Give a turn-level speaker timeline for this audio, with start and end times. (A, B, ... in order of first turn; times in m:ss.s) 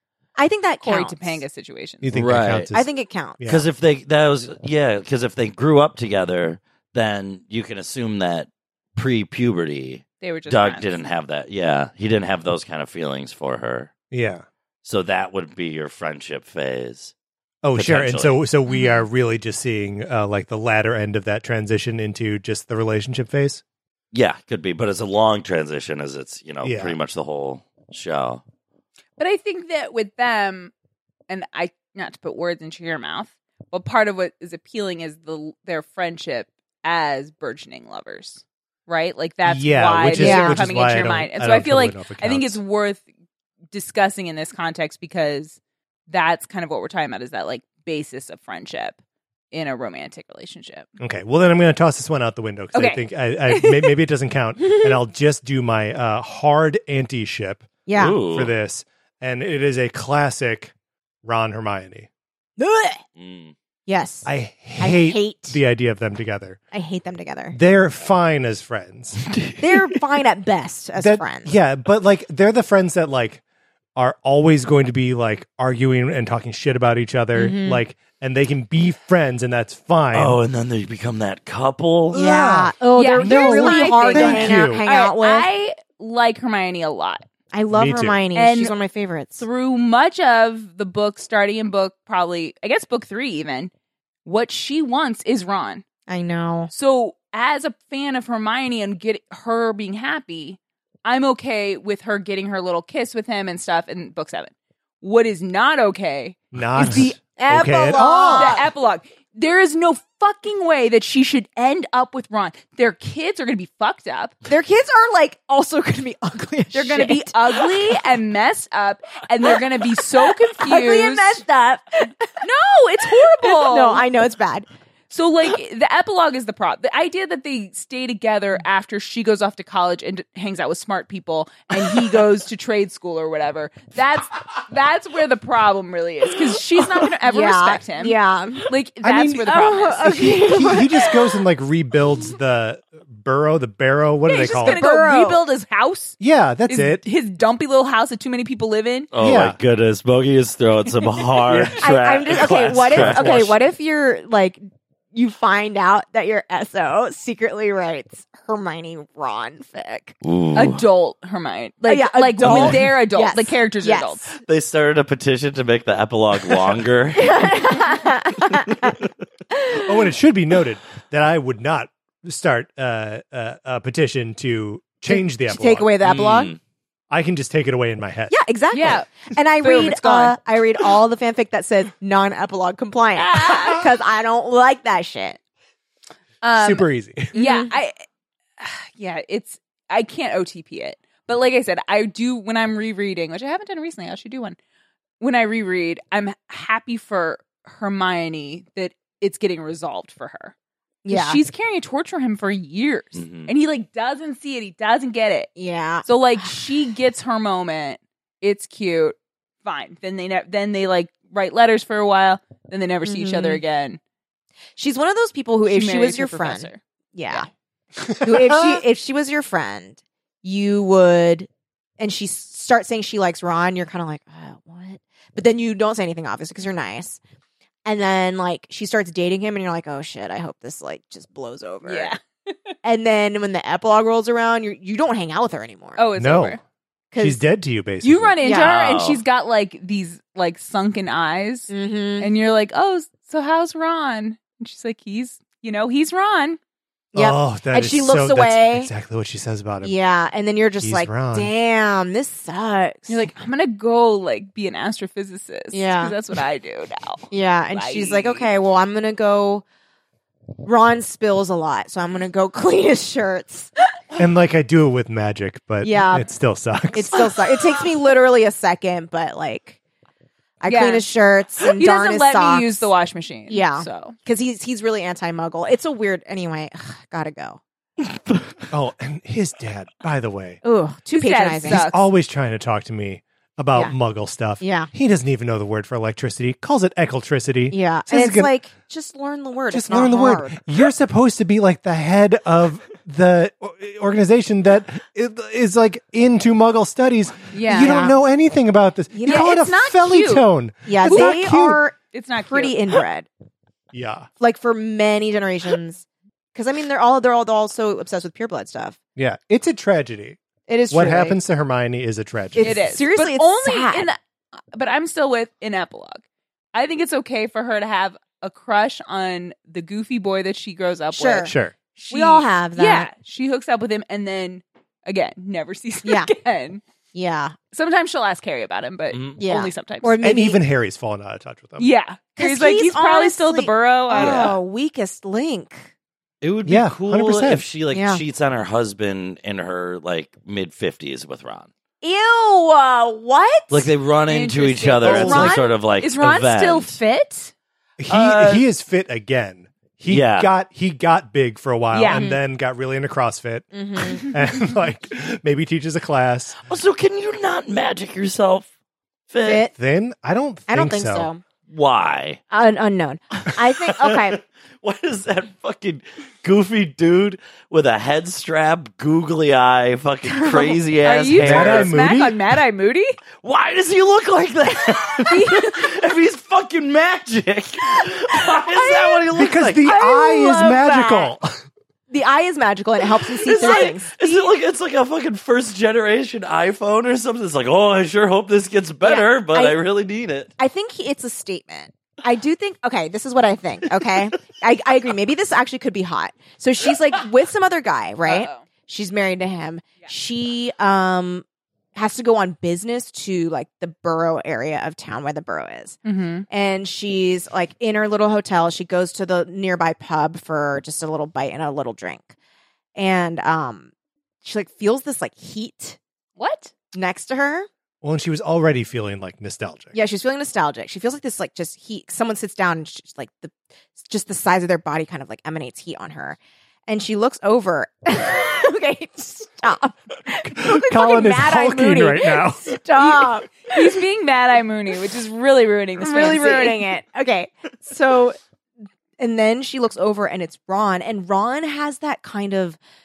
0:00.4-0:01.4 A
0:00.8-0:02.1 B
0:02.0-0:02.9 C
0:02.1-0:02.7 D
0:02.7-0:03.4 A
0:03.4-0:03.7 C
0:03.5-0:13.9 D
0:10.2-0:11.0 B
0:14.1-0:14.4 C
0:14.8-0:17.1 D
0:17.6-0:23.6 C
0:17.8-0:18.4 D
0:24.1-0:28.4 D
0:26.6-0:27.0 C
0:29.2-0:30.7 B
0:31.3-0:43.0 B
0:39.4-0:42.6 C
0:40.2-0:40.7 A
0:43.7-0:49.0 B
0:49.5-0:50.9 B
0:51.0-1:00.7 C
0:52.7-0:54.0 B
0:57.9-0:58.2 A
0:58.0-0:58.5 D
1:01.2-1:02.1 C
1:02.6-1:03.0 A
1:03.2-1:03.5 D
1:03.9-1:04.3 A
1:04.3-1:06.6 C
1:04.8-1:05.6 A
1:06.7-1:07.6 A
1:07.5-1:09.3 C
1:09.3-1:09.6 D
1:09.6-1:11.5 A
1:11.0-1:13.4 C
1:14.0-1:20.4 C
1:17.4-1:17.8 A
1:20.1-1:22.2 D
1:22.1-1:24.8 C
1:22.1-1:25.5 A
1:23.0-1:27.2 B
1:27.5-1:29.4 A
1:27.7-1:28.2 C
1:28.4-1:28.8 B
1:29.4-1:33.7 B
1:34.2-1:35.8 B
1:36.1-1:36.7 A
1:36.7-1:54.4 B
1:46.5-1:48.6 C
1:47.5-1:48.7 A
1:54.5-1:58.0 A
1:56.7-2:01.4 B
2:00.2-2:02.3 A
2:02.4-2:04.0 B
2:03.4-2:04.7 A
2:05.1-2:18.2 B
2:17.3-2:18.7 A
2:18.7-2:20.8 B
2:19.0-2:24.8 C
2:19.4-2:21.0 A
2:24.3-2:29.1 B
2:24.4-2:25.4 A
2:26.2-2:27.0 C
2:29.1-2:33.6 D
2:29.2-2:29.6 C
2:31.5-2:33.5 C
2:31.8-2:40.2 A
2:40.2-2:40.8 D
2:40.6-2:44.4 B
2:41.8-2:44.3 A
2:42.4-2:42.7 D
2:44.5-2:47.5 D
2:47.2-2:49.0 A
2:49.6-2:49.9 A
2:49.7-2:55.9 C
2:55.1-2:56.5 A
2:56.0-2:56.6 D
2:57.1-2:58.4 C
2:58.3-3:05.4 A
2:58.7-2:59.1 B
2:59.6-3:00.4 B
3:03.2-3:03.9 B
3:06.4-3:08.0 B
3:06.6-3:07.3 C
3:07.3-3:07.7 A
3:08.6-3:14.6 B
3:15.2-3:20.5 B
3:21.0-3:21.4 A
3:21.1-3:25.5 B
3:23.2-3:23.5 D
3:25.6-3:26.5 A
3:26.0-3:34.0 B
3:33.0-3:33.6 A
3:34.8-3:37.5 A
3:35.7-3:36.8 B
3:38.0-3:38.8 C
3:38.2-3:47.2 A
3:47.8-3:52.1 A
3:51.8-3:52.7 B
3:52.8-3:56.1 A
3:56.0-3:56.6 B
3:56.2-3:56.6 C
3:57.1-3:57.4 A
3:57.2-3:58.4 C
3:58.0-4:06.6 B
3:58.4-3:58.7 A
3:58.5-3:59.2 D
4:01.7-4:02.3 A
4:07.1-4:10.0 C
4:07.2-4:08.9 A
4:09.8-4:13.2 A
4:10.8-4:11.5 C
4:13.1-4:18.5 B
4:15.7-4:16.2 A
4:17.3-4:19.6 A
4:20.6-4:23.7 A
4:24.2-4:27.2 C
4:25.8-4:26.3 A
4:26.9-4:29.8 A
4:30.6-4:32.9 A
4:30.7-4:31.1 B
4:31.7-4:34.2 B
4:33.5-4:37.6 A
4:38.7-4:40.6 C
4:40.6-4:41.8 A
4:41.1-4:42.1 B
4:41.7-4:48.5 C
4:44.6-4:44.9 A
4:47.7-4:50.6 A
4:49.7-5:01.8 C
4:57.5-4:58.0 B
4:57.7-4:58.2 A
4:59.1-4:59.7 A
4:59.2-5:00.4 B
5:00.9-5:03.3 A
5:01.1-5:01.4 B
5:02.1-5:02.8 B
5:03.9-5:04.3 C
5:04.4-5:09.0 A
5:09.2-5:10.4 C
5:10.7-5:11.4 A
5:10.9-5:12.8 C
5:12.6-5:14.1 A
5:12.6-5:14.2 B
5:14.7-5:16.2 B
5:16.7-5:26.8 B
5:21.1-5:21.6 A
5:21.5-5:21.7 C
5:22.1-5:23.1 A
5:26.0-5:26.3 A
5:27.1-5:27.6 A
5:27.7-5:30.2 B
5:29.1-5:29.4 D
5:29.4-5:30.6 A
5:30.2-5:31.9 C
5:31.8-5:34.6 B
5:32.4-5:35.9 A
5:34.2-5:34.6 D
5:36.4-5:41.7 D
5:36.6-5:37.6 C
5:37.9-5:38.2 A
5:42.0-5:43.9 A
5:43.7-5:47.0 D
5:44.3-5:47.5 B
5:45.0-5:45.6 C
5:48.0-5:56.6 C
5:48.1-5:48.6 D
5:50.1-5:50.5 D
5:51.9-5:52.3 B
5:52.1-5:52.4 A
5:53.7-5:54.3 A
5:56.7-5:58.7 D
5:59.3-5:59.6 D
5:59.4-5:59.7 A
5:59.8-6:01.3 C
6:00.7-6:01.4 A
6:01.7-6:02.4 D
6:02.5-6:04.4 A
6:03.9-6:11.9 D
6:10.3-6:10.8 A
6:11.0-6:13.2 B
6:11.4-6:12.4 C
6:13.4-6:19.9 D
6:15.3-6:15.9 B
6:18.8-6:19.2 A
6:19.3-6:21.5 C
6:19.8-6:21.3 A
6:22.1-6:24.5 A
6:23.4-6:30.5 D
6:23.6-6:24.0 B
6:29.0-6:29.8 A
6:30.6-6:52.3 A
6:38.2-6:38.7 B
6:46.0-6:46.5 B
6:53.0-6:53.9 A
6:54.4-6:56.0 A
6:56.4-6:56.7 B
6:56.9-6:57.7 A
6:58.0-7:00.0 C
6:59.9-7:14.0 A
7:10.4-7:12.8 C
7:13.7-7:16.8 B
7:16.0-7:18.4 A
7:19.2-7:22.8 A